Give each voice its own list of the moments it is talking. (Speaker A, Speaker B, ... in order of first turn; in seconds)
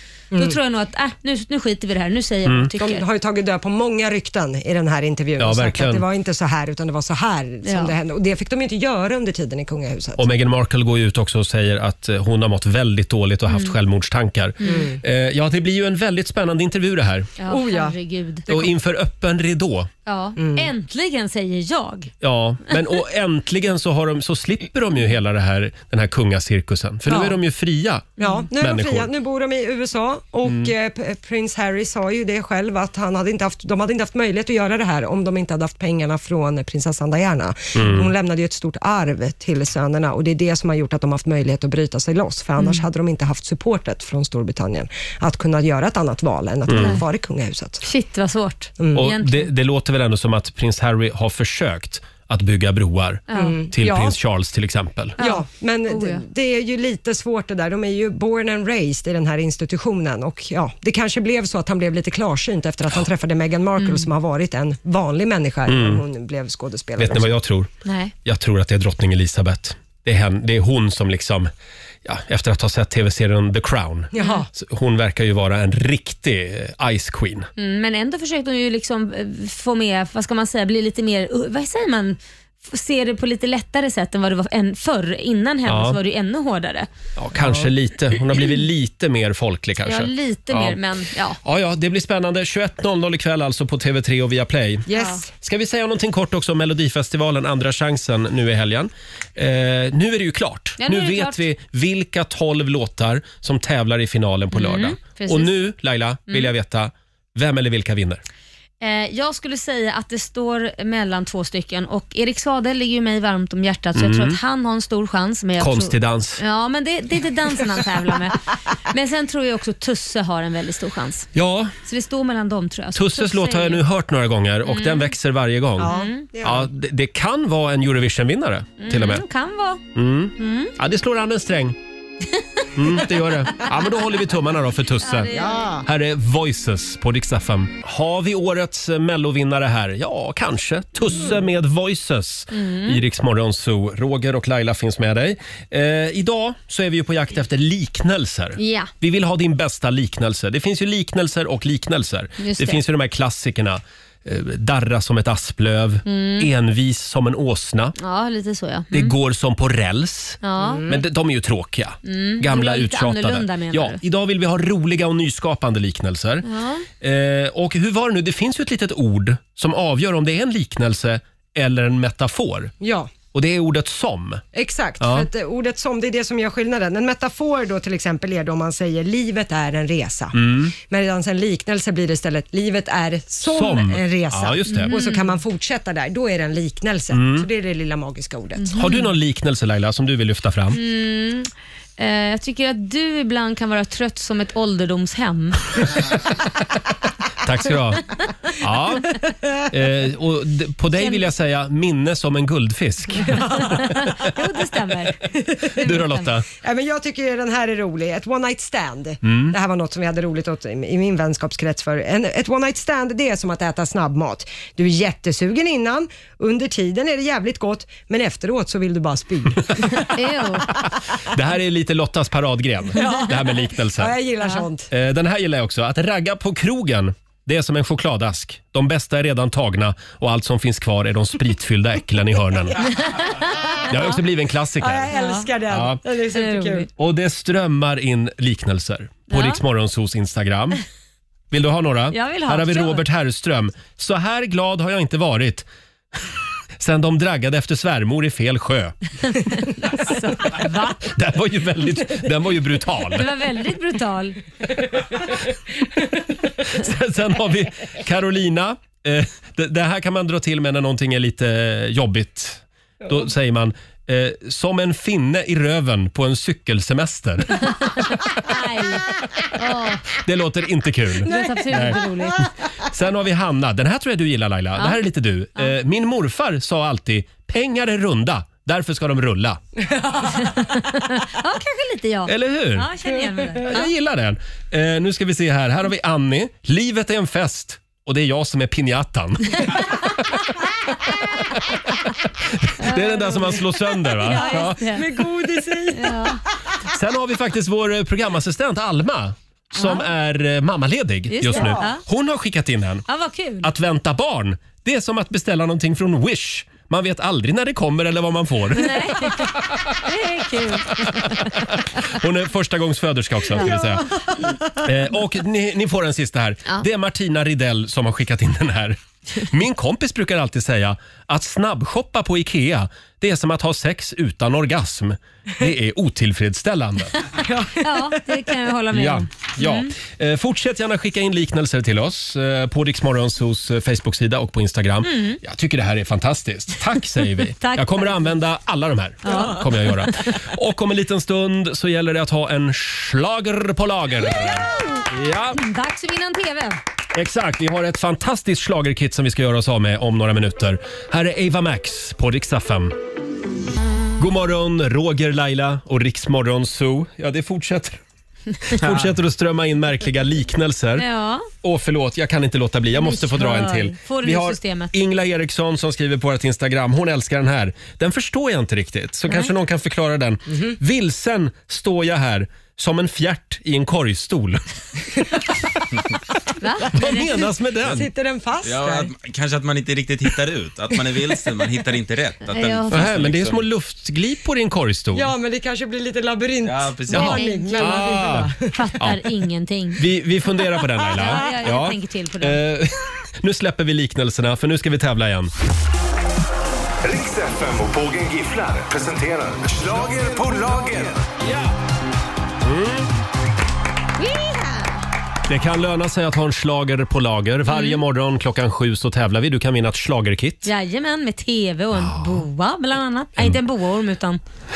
Speaker A: 0.4-3.0, 7.6-7.9, 13.5-13.8, 17.4-18.5, 20.1-22.1, 42.6-42.8, 46.7-47.0, 47.8-49.5, 53.3-53.5, 55.2-56.2, 63.8-64.1, 67.8-68.1, 74.2-74.4, 77.6-86.9, 89.8-91.4, 94.9-95.2, 100.8-101.4, 104.5-105.6, 108.8-121.3, 121.8-123.8, 124.7-125.1, 125.8-126.3, 128.8-129.8, 130.4-130.7, 135.0-135.7, 142.5-143.0, 148.6-148.9, 152.4-152.8, 156.1-156.5, 158.0-159.2, 160.4-160.9, 162.1-164.0, 166.4-166.9, 184.7-185.3, 188.6-189.1, 190.7-195.6, 200.9-201.2, 203.7-206.3, 220.0-220.7, 233.0-233.3, 235.1-235.5, 236.3-236.9, 239.3-239.6, 242.1-243.0, 249.3-251.0, 253.1-254.4, 267.6-270.1, 271.2-272.5, 274.8-275.0, 280.4-283.9, 292.8-293.6, 294.1-295.1, 295.9-296.4, 299.8-300.1, 301.3-302.0, 303.1-303.7, 308.8-311.7, 327.8-329.9, 335.0-335.4, 337.3-338.2, 339.2-340.4, 344.4-345.1, 345.6-346.8, 361.0-361.5, 363.0-364.9, 376.6-377.3, 382.5-383.1, 387.1-390.0, 391.1-392.6, 404.2-405.0, 407.7-408.0, 410.6-414.4
Speaker B: 2.5-2.7, 5.4-6.0, 10.2-17.4, 18.5-19.9, 22.2-29.1, 30.4-30.7, 37.8-38.1, 46.7-47.0, 48.9-55.2, 65.7-66.0, 67.0-67.7, 68.2-71.5, 72.0-77.5, 85.7-86.0, 87.2-90.8, 91.4-94.9, 95.4-108.2, 114.0-114.4, 115.6-116.4, 121.3-121.7, 122.9-129.2, 129.9-131.8, 132.8-158.0, 158.9-166.5, 167.0-172.7, 173.3-174.4, 175.0-175.3, 180.3-180.7, 183.4-184.9, 187.1-187.5, 188.8-190.8, 197.4-203.7, 205.8-206.5, 209.2-209.6, 221.3-224.2, 224.9-233.0, 233.9-235.1, 235.7-236.0, 237.0-240.8, 241.5-245.7, 246.8-249.0, 251.0-253.3, 256.6-268.0, 270.1-272.0, 272.8-279.6, 282.3-282.9, 283.5-291.8, 292.4-295.0, 296.9-303.1, 303.6-314.1, 314.7-327.2, 328.9-345.6, 347.1-353.0, 354.2-358.0, 358.6-361.1, 361.6-374.6, 376.9-378.1, 382.9-385.3, 387.1-389.2, 390.0-395.5, 401.4-401.7, 402.6-403.1, 405.5-410.7, 411.9-412.5
Speaker C: 2.8-10.3, 14.6-15.0, 17.5-18.7, 20.4-20.7, 27.1-27.4, 28.2-47.8, 48.8-49.1, 53.4-54.2, 55.2-67.3, 74.1-74.5, 87.4-87.7, 94.9-95.3, 125.8-126.7, 135.3-135.9, 160.6-161.0, 172.8-173.1, 174.5-188.8, 203.3-203.8, 205.5-205.8, 206.6-220.2, 223.0-224.9, 234.8-236.9, 271.2-272.5, 279.9-280.5, 294.3-296.4, 301.5-301.9, 313.6-314.6, 327.4-328.2, 377.8-379.1, 385.1-388.6
Speaker D: 378.6-383.6, 386.6-387.4
Speaker E: 397.0-401.3